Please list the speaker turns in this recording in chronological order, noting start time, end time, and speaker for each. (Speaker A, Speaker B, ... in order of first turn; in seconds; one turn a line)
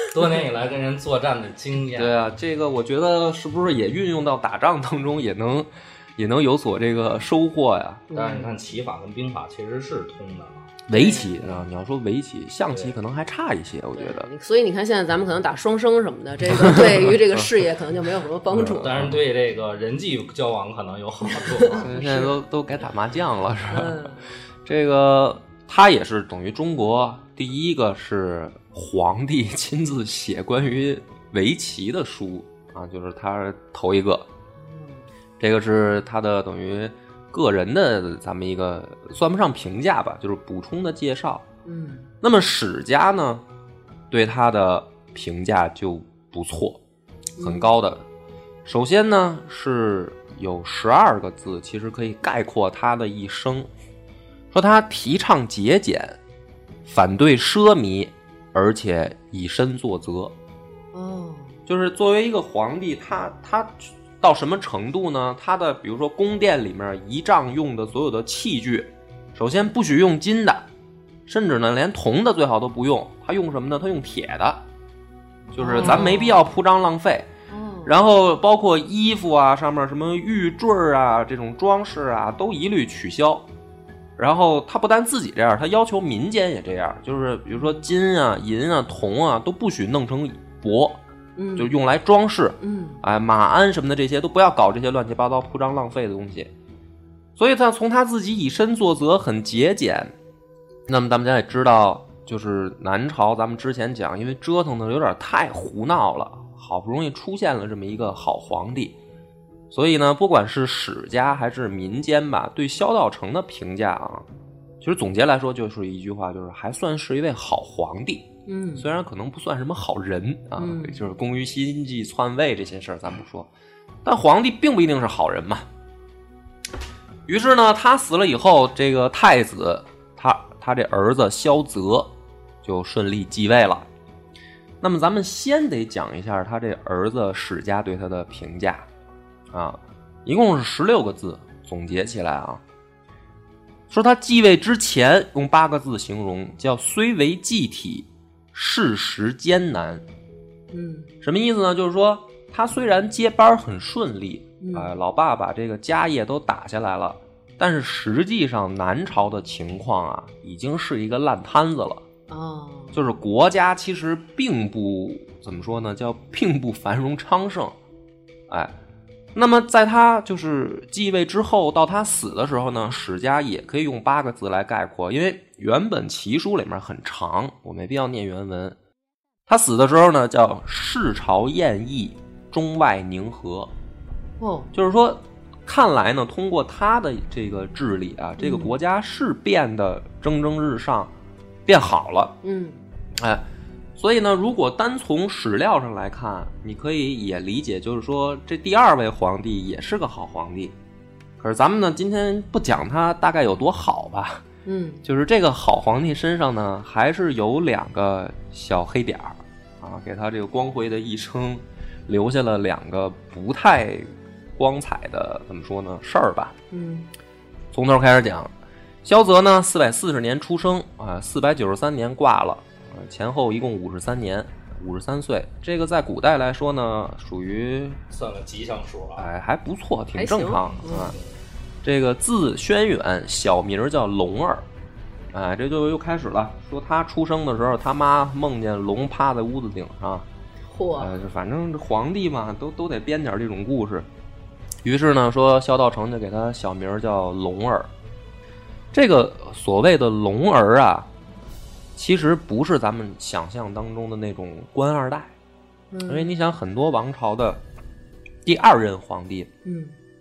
Speaker A: 0.1-2.1
Speaker B: 1.9-8.0
Speaker C: 8.1-8.5
Speaker A: 8.1-10.7
Speaker B: 10.9-14.3
Speaker C: 10.9-11.6
Speaker A: 12.7-12.9
Speaker C: 14.0-19.1
Speaker A: 18.5-21.9
Speaker C: 21.5-22.4
Speaker B: 21.8-24.1
Speaker C: 23.7-24.3
Speaker B: 24.6-34.3
Speaker C: 34.6-35.1
Speaker B: 35.4-41.5
Speaker C: 41.6-42.1
Speaker B: 42.2-43.4
Speaker B: 44.1-46.8
Speaker C: 47.4-47.7
Speaker B: 47.4-48.1
Speaker B: 48.6-53.7
Speaker B: 54.5-56.2
Speaker B: 56.9-60.3
Speaker C: 60.9-61.6
Speaker B: 61.7-70.7
Speaker B: 71.3-74.6
Speaker C: 75.5-76.4
Speaker B: 75.6-77.3
Speaker C: 77.5-77.9
Speaker B: 77.8-83.5
Speaker B: 84.2-91.0
Speaker C: 87.5-87.8
Speaker C: 91.4-91.7
Speaker B: 91.6-96.5
Speaker C: 92.6-93.0
Speaker B: 97.4-100.1
Speaker B: 100.9-109.0
Speaker B: 109.7-114.3
Speaker B: 114.8-123.5
Speaker C: 118.5-118.9
Speaker C: 120.6-121.0
Speaker B: 124.0-125.7
Speaker B: 127.3-132.1
Speaker B: 132.6-133.9
Speaker B: 134.8-138.9
Speaker B: 139.5-142.6
Speaker B: 143.9-150.0
Speaker C: 150.7-151.1
Speaker B: 151.2-162.1
Speaker C: 154.6-154.9
Speaker C: 162.3-163.0
Speaker B: 162.9-167.8
Speaker B: 168.5-168.7
Speaker B: 169.3-178.8
Speaker B: 179.5-183.7
Speaker C: 184.4-184.7
Speaker B: 184.7-191.1
Speaker C: 188.4-188.7
Speaker B: 191.7-192.3
Speaker C: 192.4-192.8
Speaker B: 193.2-193.4
Speaker B: 194.0-200.8
Speaker B: 201.4-204.4
Speaker C: 204.7-205.0
Speaker B: 205.0-216.6
Speaker C: 216.7-217.1
Speaker B: 217.7-218.5
Speaker B: 219.0-228.0
Speaker A: 228.1-229.3
Speaker B: 229.2-231.2
Speaker C: 230.2-231.2
Speaker B: 231.8-234.7
Speaker B: 235.3-240.3
Speaker C: 240.7-241.1
Speaker B: 241.0-244.1
Speaker B: 244.8-247.9
Speaker B: 248.9-251.1
Speaker B: 252.0-255.3
Speaker C: 255.9-256.3
Speaker B: 256.1-257.6
Speaker B: 258.4-259.5
Speaker C: 259.6-260.0